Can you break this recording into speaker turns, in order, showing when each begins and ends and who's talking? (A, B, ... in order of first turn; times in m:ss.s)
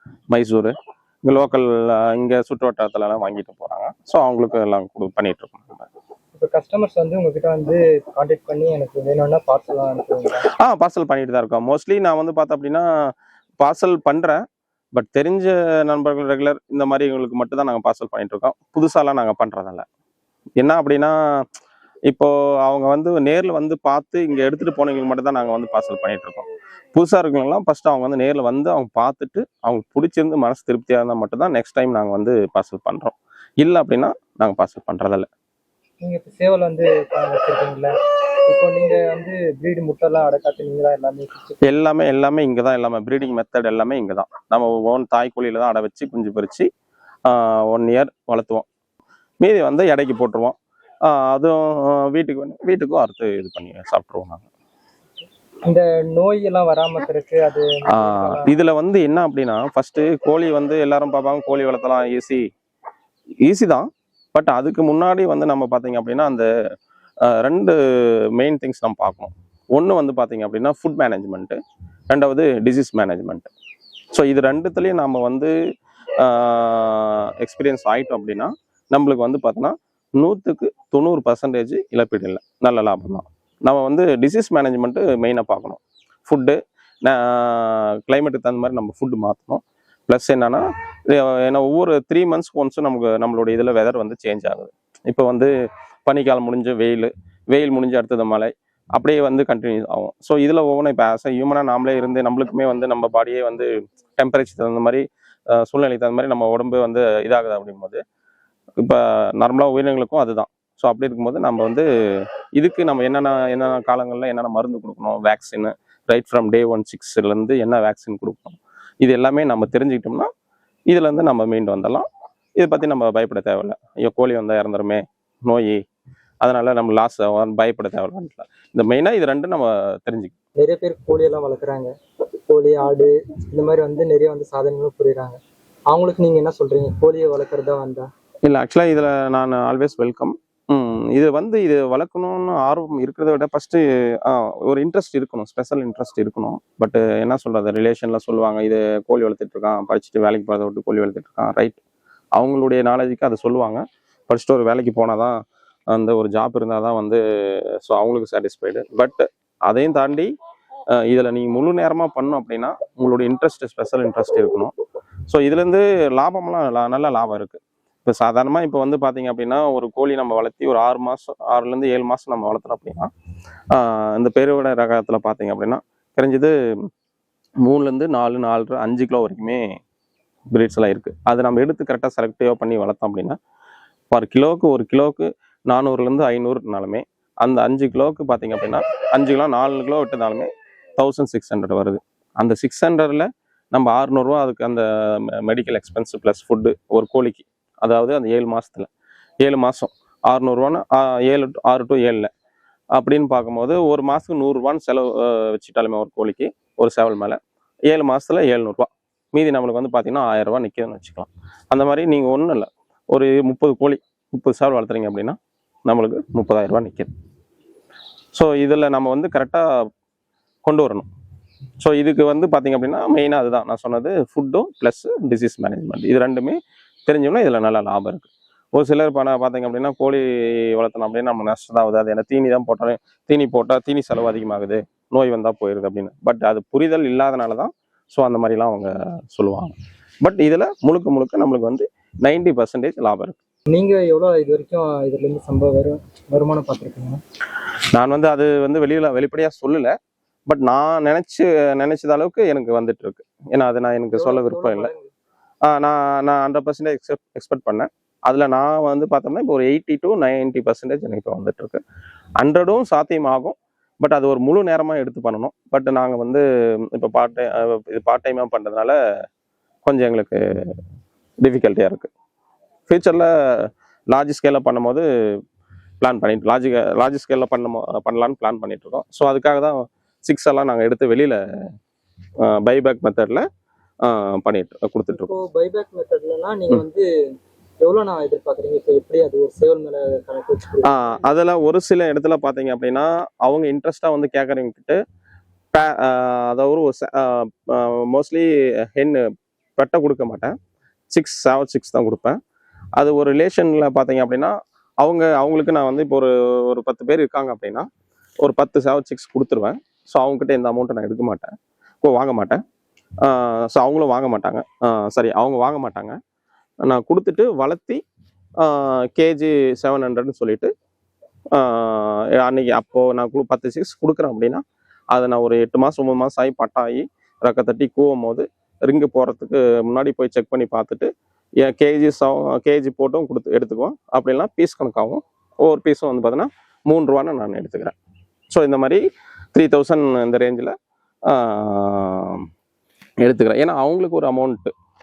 0:00.3-0:05.9 A
0:06.3-0:10.5 B
0:10.5-0:12.8 A
0:13.6-0:19.8 A
0:20.6-0:21.1 A
0:22.1-0:35.3 A
0:36.0-0:37.9 B
0:38.5-0:41.6 B
0:41.6-0:46.7 A
0:47.3-0:48.6 A
0:49.4-0:54.4 A
0:55.7-0:58.5 B
0:57.9-1:02.5 A
1:03.4-1:06.5 A
1:07.2-1:07.8 A
1:08.3-1:11.6 A
1:12.1-1:13.5 A
1:14.1-1:15.5 A
1:16.2-1:35.5 A
1:36.0-1:48.0 A
1:48.8-2:00.3 A
2:00.9-2:02.0 A
2:02.6-2:05.8 A
2:06.4-2:10.3 A
2:10.6-2:11.9 B
2:12.5-2:18.1 B
2:18.4-2:31.8 A
2:32.3-2:35.4 A
2:35.9-2:40.3 A
2:41.0-2:44.7 A
2:45.3-2:53.1 A
2:53.7-2:56.5 A
2:57.6-2:59.8 A
3:00.5-3:03.4 A
3:04.1-3:18.9 A
3:19.4-3:22.3 A
3:22.9-3:37.1 A
3:38.3-3:39.7 A
3:40.6-3:41.1 A
3:41.8-4:03.4 A
4:03.7-4:07.2 B
4:07.9-4:09.9 A
4:10.5-4:14.9 A
4:14.1-4:15.1 B
4:15.6-4:21.8 A
4:22.4-4:29.0 A
4:29.8-4:30.4 A
4:31.4-4:32.1 A
4:32.9-4:35.0 A
4:36.0-4:41.4 A
4:42.4-4:43.4 A
4:44.0-4:45.4 A
4:45.2-4:47.1 B
4:47.8-4:51.1 B
4:50.8-4:55.0 A
4:55.7-5:00.5 A
5:01.1-5:02.4 A
5:03.0-5:07.9 A
5:08.4-5:12.6 A
5:13.2-5:16.2 A
5:16.8-5:18.0 A
5:18.6-5:20.7 A
5:21.5-5:24.6 A
5:25.1-5:31.1 A
5:31.6-5:37.9 A
5:38.5-5:39.0 A
5:39.5-5:40.7 A
5:41.3-5:42.4 A
5:43.2-5:44.7 A